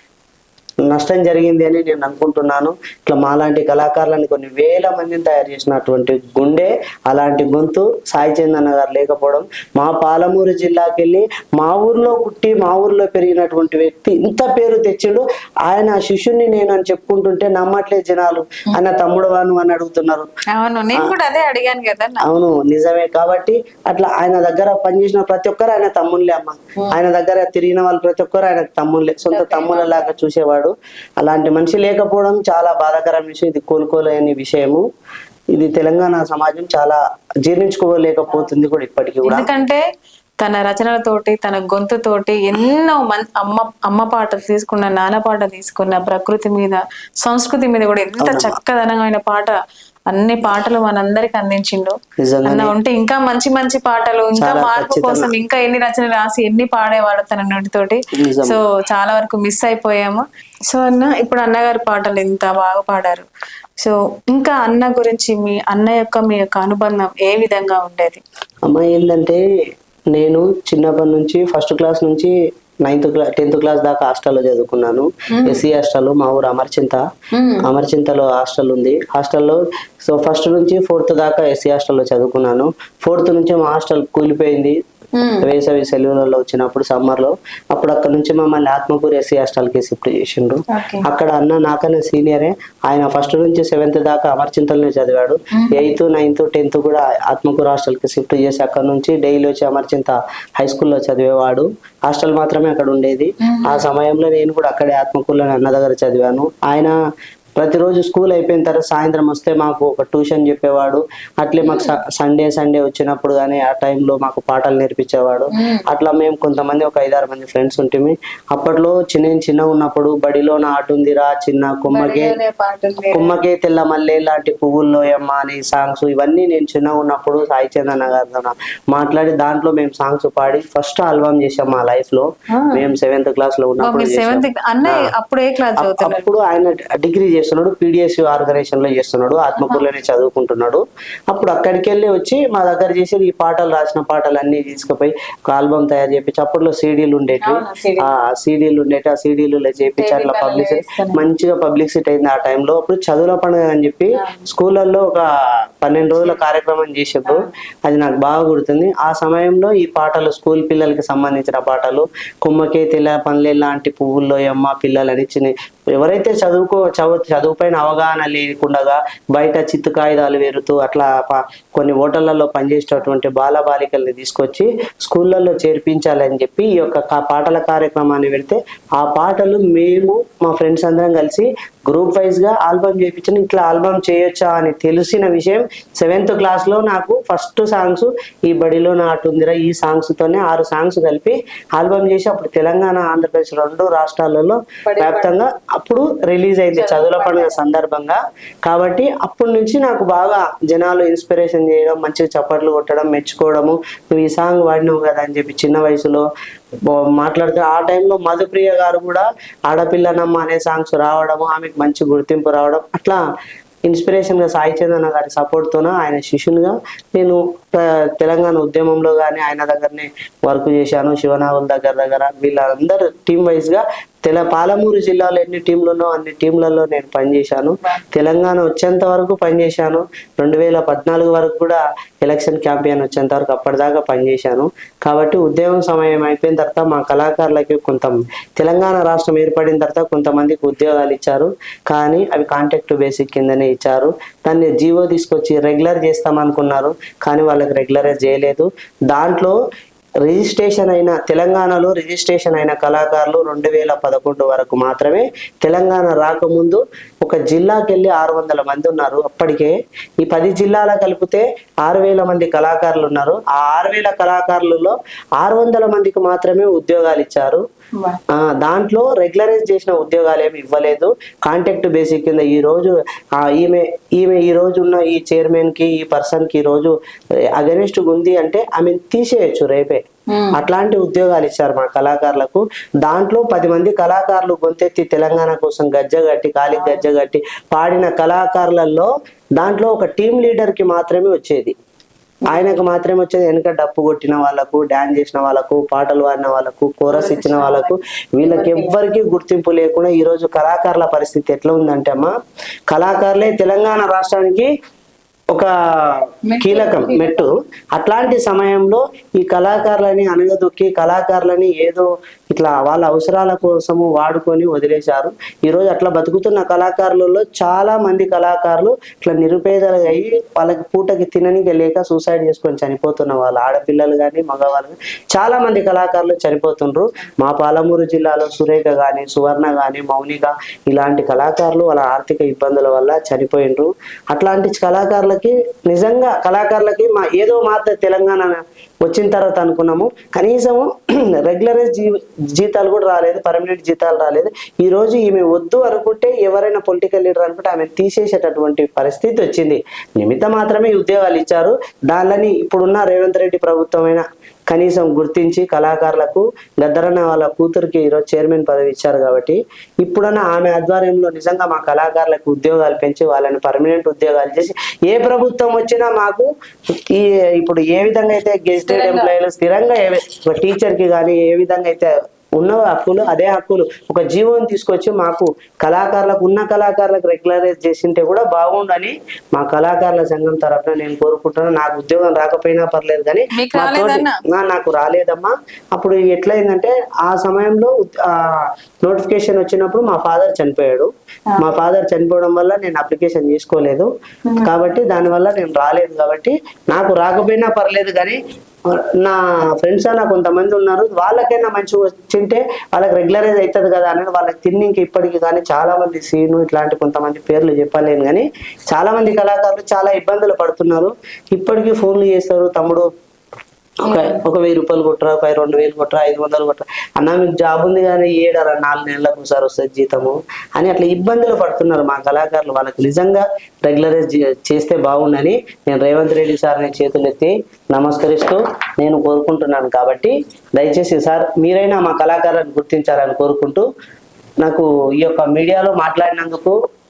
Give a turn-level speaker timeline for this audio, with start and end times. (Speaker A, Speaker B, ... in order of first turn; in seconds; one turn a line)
Speaker A: 0.9-20.3
Speaker B: 20.5-22.2
Speaker A: 22.2-34.8
Speaker B: 29.2-30.1
Speaker A: 35.5-39.5
Speaker B: 39.2-39.8
Speaker B: 40.4-49.5
Speaker A: 48.2-48.6
Speaker B: 50.1-63.3
Speaker A: 52.2-52.7
Speaker A: 54.4-55.3
Speaker A: 58.2-58.6
Speaker B: 63.8-68.2
Speaker A: 68.7-69.4
Speaker A: 70.1-72.3
Speaker A: 72.8-77.0
Speaker B: 75.3-75.6
Speaker B: 77.3-77.6
Speaker A: 77.6-84.8
Speaker B: 85.1-85.5
Speaker A: 85.4-106.9
Speaker B: 90.7-91.0
Speaker B: 95.5-95.9
Speaker B: 103.4-103.8
Speaker A: 107.6-122.3
Speaker B: 111.6-112.0
Speaker B: 115.5-115.8
Speaker B: 121.9-123.3
Speaker A: 123.1-135.1
Speaker B: 132.5-132.8
Speaker B: 133.8-136.3
Speaker A: 135.8-155.2
Speaker B: 139.6-139.9
Speaker B: 147.4-148.1
Speaker B: 150.0-151.2
Speaker B: 154.1-154.4
Speaker A: 155.8-206.2
Speaker B: 157.2-157.5
Speaker B: 194.8-195.3
Speaker B: 196.7-197.6
Speaker A: 206.9-213.2
Speaker A: 213.9-249.6
Speaker A: 250.2-267.6
Speaker A: 268.3-276.9
Speaker A: 277.6-280.0
Speaker A: 280.6-291.7
Speaker B: 286.7-287.1
Speaker A: 292.5-302.3
Speaker B: 297.1-299.0
Speaker A: 302.9-304.7
Speaker A: 305.5-366.5
Speaker B: 306.5-307.5
Speaker A: 367.1-394.1
Speaker B: 368.8-369.3
Speaker B: 383.5-384.4
Speaker B: 391.5-391.8
Speaker B: 394.5-394.8
Speaker A: 394.6-398.4
Speaker A: 399.2-413.1
Speaker B: 414.1-414.4
Speaker A: 414.1-433.8
Speaker A: 434.6-436.8